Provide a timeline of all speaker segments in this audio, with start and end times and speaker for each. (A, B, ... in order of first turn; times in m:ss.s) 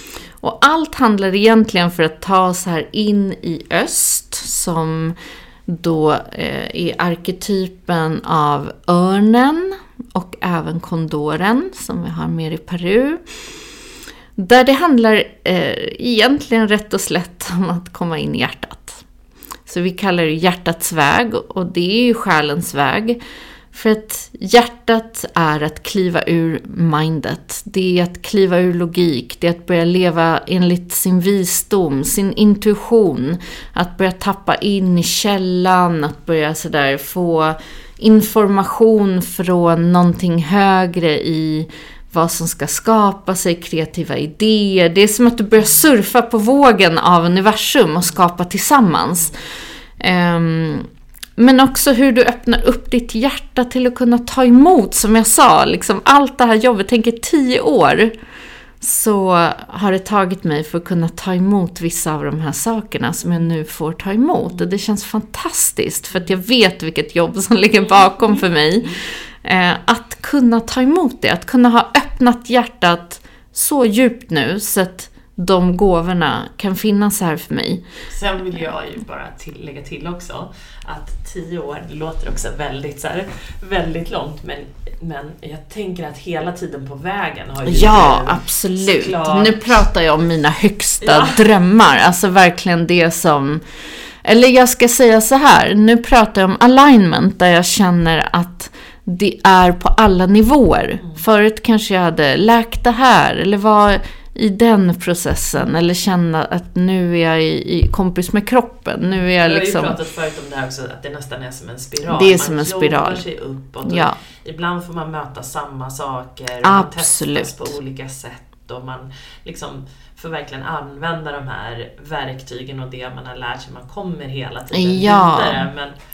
0:00.4-0:13.2 A
0:14.4-0:19.0 A
0:19.7-0:23.2 A
0:23.7-0:49.4 A
0:50.0-0:58.2 A
0:58.8-1:17.8 A
1:07.8-1:08.9 B
1:18.1-1:29.8 B
1:27.6-1:33.6 A
1:31.0-1:31.4 B
1:34.2-1:50.0 A
1:49.0-2:05.9 B
1:52.0-1:53.2 A
1:53.8-1:54.2 A
1:56.6-1:57.7 A
2:04.7-2:05.7 A